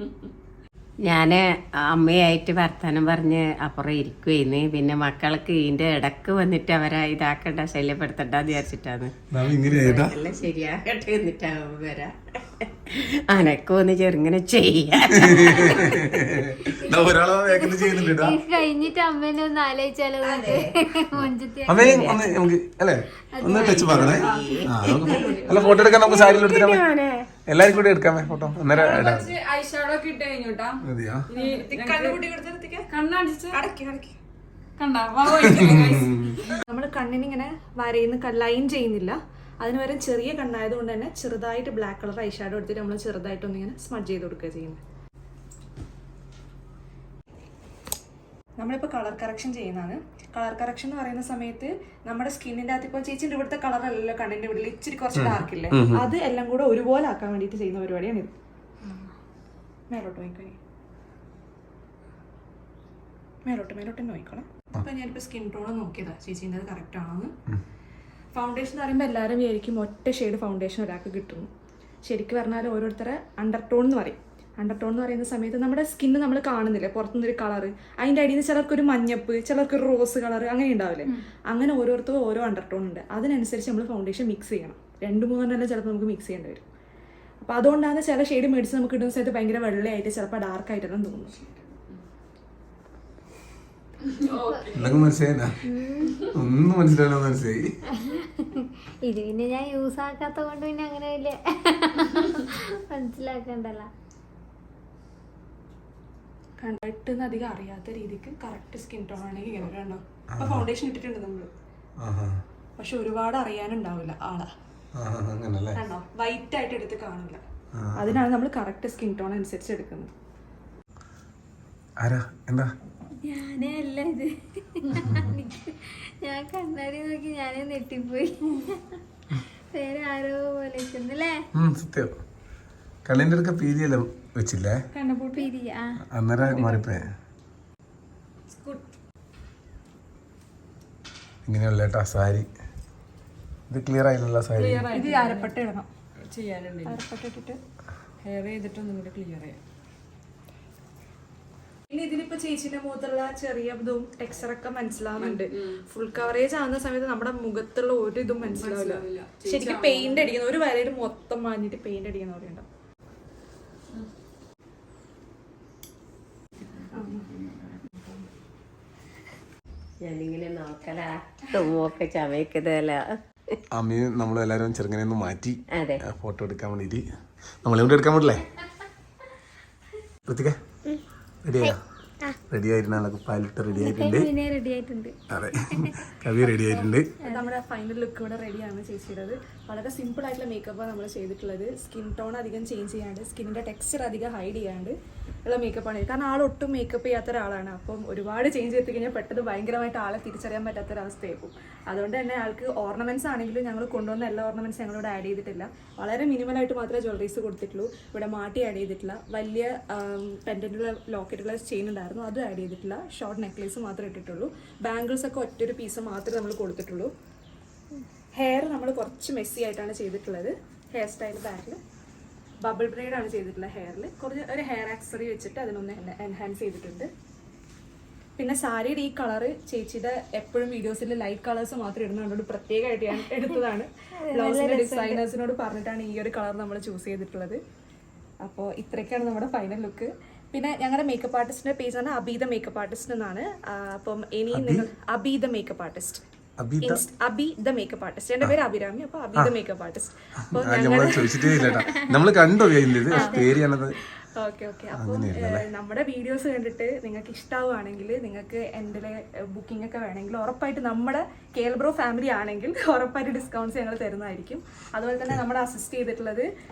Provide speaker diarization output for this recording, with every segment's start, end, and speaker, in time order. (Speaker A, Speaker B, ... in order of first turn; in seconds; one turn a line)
Speaker A: 1.1-9.1
Speaker B: 9.3-10.2
Speaker A: 9.6-16.1
Speaker B: 15.2-18.4
Speaker C: 16.8-22.2
Speaker D: 20.2-20.7
Speaker B: 21.2-26.9
Speaker A: 21.8-22.3
Speaker C: 23.4-23.7
Speaker D: 23.4-26.1
Speaker A: 23.9-27.3
Speaker B: 27.5-29.3
Speaker D: 28.7-32.3
Speaker B: 30.8-31.2
Speaker E: 31.3-32.9
Speaker D: 32.9-33.6
Speaker E: 33.5-34.2
Speaker D: 34.8-36.5
Speaker B: 35.3-36.4
Speaker E: 36.6-44.8
Speaker E: 48.6-58.3
Speaker B: 55.1-56.1
Speaker E: 59.9-60.6
Speaker E: 63.5-67.3
Speaker E: 68.3-71.5
Speaker E: 72.0-86.7
Speaker E: 87.4-91.4
Speaker D: 94.1-95.0
Speaker B: 94.7-95.6
Speaker C: 95.6-96.3
Speaker B: 96.3-97.7
Speaker C: 97.9-103.9
Speaker E: 106.6-111.5
Speaker B: 110.3-110.7
Speaker B: 112.0-112.4
Speaker E: 112.8-114.5
Speaker B: 115.0-115.8
Speaker E: 115.8-117.4
Speaker B: 117.8-118.2
Speaker E: 118.0-120.1
Speaker B: 122.0-122.7
Speaker C: 123.2-128.8
Speaker B: 125.0-125.3
Speaker C: 129.7-131.4
Speaker B: 131.6-132.1
Speaker B: 133.1-134.8
Speaker E: 134.9-135.5
Speaker C: 135.3-136.0
Speaker B: 136.1-137.1
Speaker D: 138.5-138.8
Speaker B: 141.5-142.5
Speaker B: 143.7-144.9
Speaker D: 144.6-145.6
Speaker E: 144.9-145.9
Speaker D: 146.3-147.0
Speaker E: 146.8-147.6
Speaker D: 148.2-149.6
Speaker E: 151.9-162.7
Speaker D: 155.2-155.8
Speaker D: 158.4-160.4
Speaker E: 166.9-167.3
Speaker D: 167.0-168.1
Speaker A: 170.0-173.6
Speaker B: 173.7-177.0
Speaker A: 175.7-176.0
Speaker B: 177.6-178.5
Speaker B: 180.3-180.6
Speaker B: 181.4-181.8
Speaker B: 182.5-184.3
Speaker C: 183.7-185.2
Speaker B: 185.3-187.1
Speaker C: 185.7-186.0
Speaker E: 187.2-217.1
Speaker E: 218.4-221.8
Speaker E: 222.6-227.1
Speaker E: 228.4-237.6
Speaker C: 234.2-235.2
Speaker E: 238.4-246.2
Speaker B: 244.5-244.9
Speaker B: 246.6-247.0
Speaker E: 246.8-251.8
Speaker B: 250.5-254.0
Speaker C: 251.3-252.0
Speaker C: 253.1-253.5
Speaker E: 253.1-253.5
Speaker E: 254.4-266.5
Speaker B: 254.9-255.7